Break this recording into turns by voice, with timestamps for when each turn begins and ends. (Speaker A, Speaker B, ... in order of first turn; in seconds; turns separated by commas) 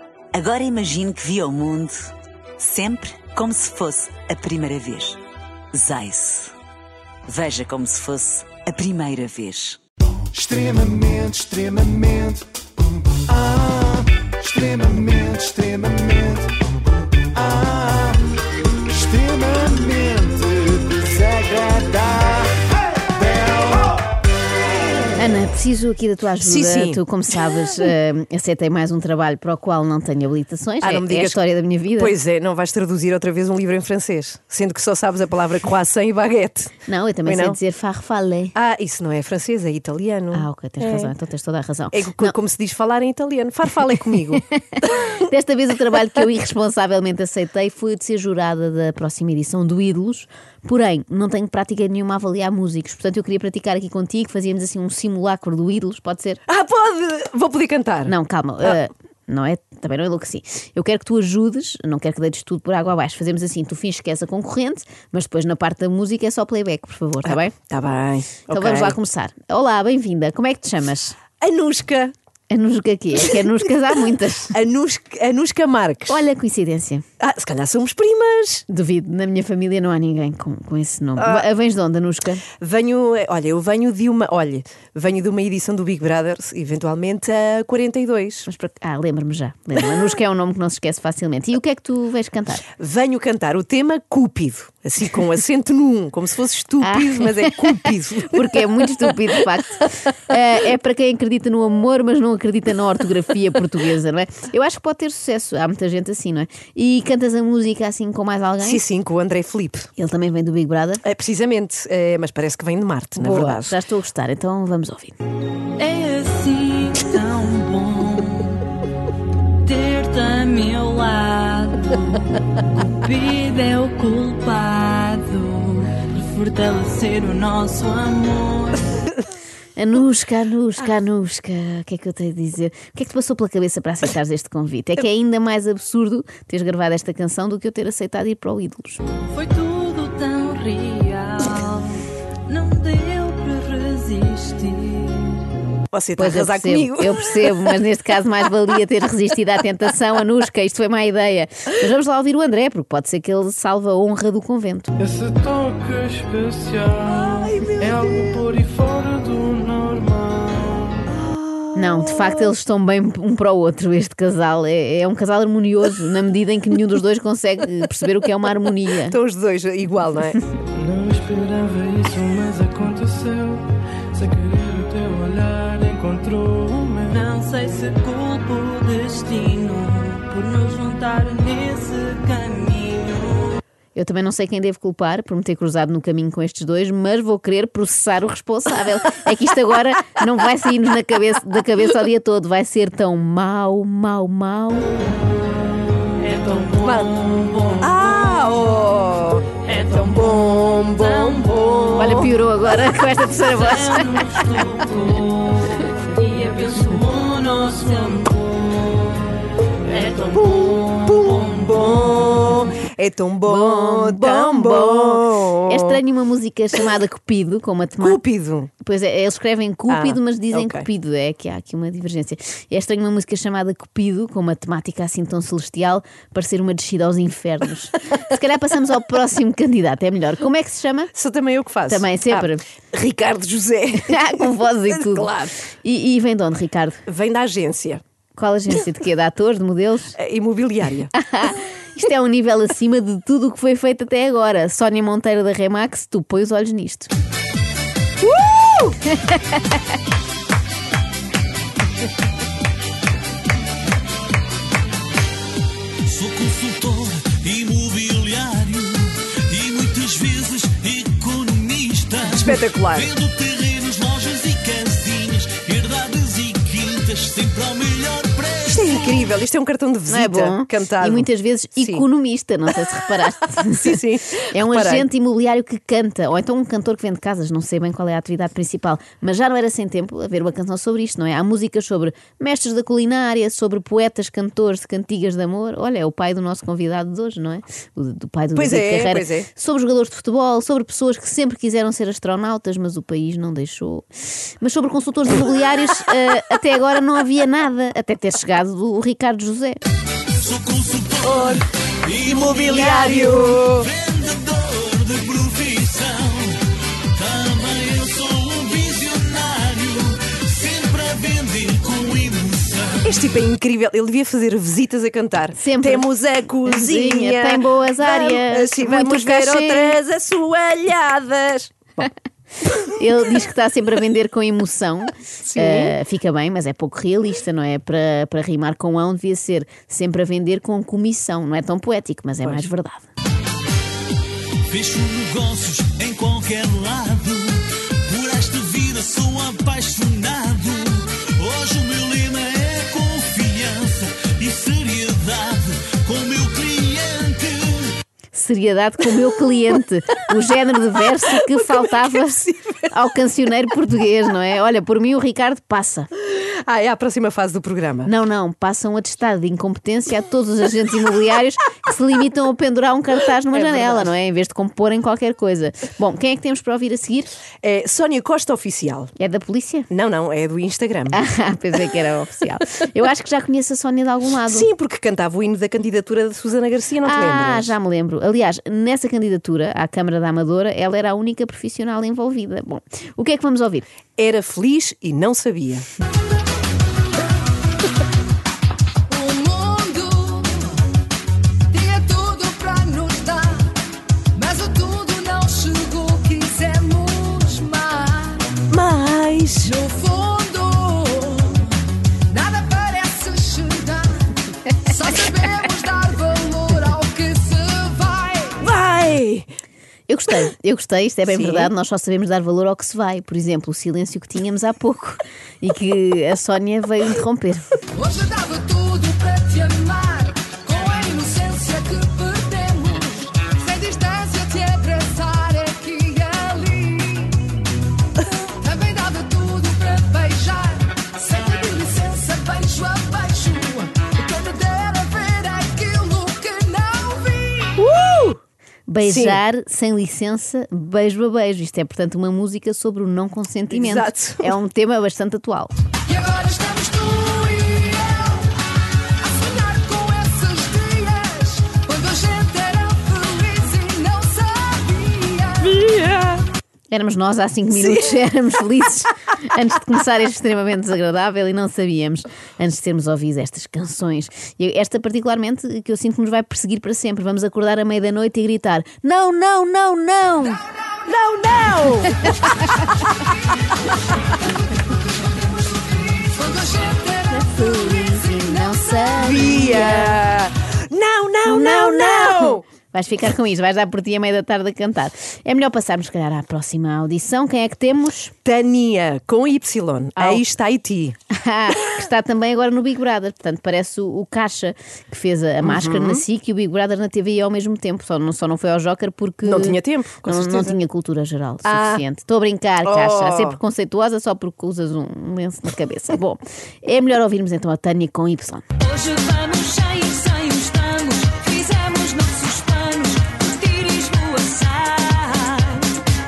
Speaker A: 0.3-5.2, Speaker A: 5.7-6.5, Speaker A: 7.3-9.8, Speaker B: 10.3-12.5, Speaker B: 13.2-16.6, Speaker B: 17.3-18.2, Speaker B: 18.9-22.6, Speaker B: 23.1-23.9, Speaker C: 25.2-32.1, Speaker D: 26.4-27.0, Speaker D: 30.8-31.4, Speaker D: 31.9-37.6, Speaker C: 36.9-38.5, Speaker D: 38.5-41.1, Speaker C: 40.3-42.4, Speaker D: 41.9-44.4, Speaker C: 44.4-56.4, Speaker D: 56.5-58.1, Speaker C: 58.1-67.5, Speaker D: 67.2-69.0, Speaker C: 68.5-71.2, Speaker D: 71.4-72.1, Speaker C: 72.5-74.5, Speaker D: 74.5-76.2, Speaker C: 76.1-77.0, Speaker D: 77.2-78.6, Speaker C: 78.7-82.5, Speaker D: 81.2-81.5, Speaker D: 82.6-88.5, Speaker C: 88.5-92.7, Speaker D: 92.8-98.5, Speaker C: 96.8-97.8, Speaker C: 98.3-108.8, Speaker D: 108.6-109.9, Speaker C: 110.0-111.0, Speaker D: 111.0-113.8, Speaker C: 113.2-115.2, Speaker E: 115.8-118.7, Speaker E: 119.6-129.1, Speaker C: 129.8-139.0, Speaker E: 139.3-145.4, Speaker D: 145.9-147.7, Speaker C: 146.2-154.9, Speaker F: 155.0-161.1, Speaker D: 157.0-158.6, Speaker D: 161.1-162.5, Speaker C: 161.8-169.2, Speaker D: 169.1-170.4, Speaker F: 170.8-177.2, Speaker E: 177.1-183.6, Speaker C: 183.9-194.9, Speaker E: 196.2-198.0, Speaker D: 196.8-197.2, Speaker D: 197.8-202.3, Speaker E: 199.7-202.2, Speaker C: 202.0-204.4, Speaker E: 203.5-209.3, Speaker E: 209.8-211.4, Speaker D: 210.3-216.0, Speaker C: 213.4-218.2, Speaker D: 218.0-218.7, Speaker C: 218.8-231.1, Speaker D: 219.9-220.9, Speaker D: 231.1-235.6, Speaker C: 231.9-232.7, Speaker C: 234.0-237.0, Speaker D: 237.1-238.0, Speaker C: 238.4-240.2, Speaker D: 240.2-241.1, Speaker C: 241.2-247.1, Speaker D: 248.2-248.9, Speaker G: 256.1-269.1, Speaker D: 262.3-263.1, Speaker D: 268.7-272.1, Speaker C: 270.1-274.0, Speaker D: 273.6-275.1, Speaker C: 274.5-294.1, Speaker D: 288.6-289.5, Speaker C: 294.6-299.8, Speaker G: 300.4-313.0, Speaker D: 301.2-301.6, Speaker D: 302.2-303.9, Speaker D: 313.0-322.0, Speaker C: 315.6-316.1, Speaker C: 316.6-320.0, Speaker C: 322.8-333.1, Speaker D: 325.5-326.0, Speaker G: 334.7-347.9, Speaker C: 348.3-356.1, Speaker D: 351.4-352.9, Speaker D: 356.2-358.1, Speaker C: 358.1-367.3, Speaker D: 363.5-364.1, Speaker D: 367.6-369.1, Speaker C: 369.2-369.9, Speaker D: 369.9-371.2, Speaker C: 371.1-374.7, Speaker D: 374.5-377.7, Speaker C: 377.0-383.9, Speaker D: 384.2-385.9, Speaker H: 389.1-390.6, Speaker H: 391.7-393.7, Speaker H: 394.4-398.5, Speaker D: 398.6-399.8, Speaker H: 399.8-401.7, Speaker H: 402.3-404.1, Speaker H: 404.9-408.6, Speaker D: 408.6-409.5, Speaker C: 410.1-417.7, Speaker D: 411.3-411.7, Speaker H: 417.9-427.4, Speaker H: 428.6-437.7, Speaker D: 437.8-438.4, Speaker C: 438.9-445.7, Speaker D: 439.0-439.4, Speaker D: 443.7-444.6, Speaker H: 446.1-448.4, Speaker H: 449.3-455.6, Speaker D: 455.6-456.4, Speaker C: 456.9-470.6, Speaker D: 457.7-458.3, Speaker D: 471.0-472.7, Speaker H: 476.4-477.3, Speaker C: 477.3-480.2, Speaker D: 479.2-482.6, Speaker C: 481.4-488.3, Speaker D: 488.4-491.1, Speaker C: 490.2-490.4, Speaker C: 491.3-508.6, Speaker D: 495.6-496.2, Speaker D: 499.4-500.8, Speaker D: 501.6-502.0, Speaker D: 502.8-503.6, Speaker E: 508.8-515.9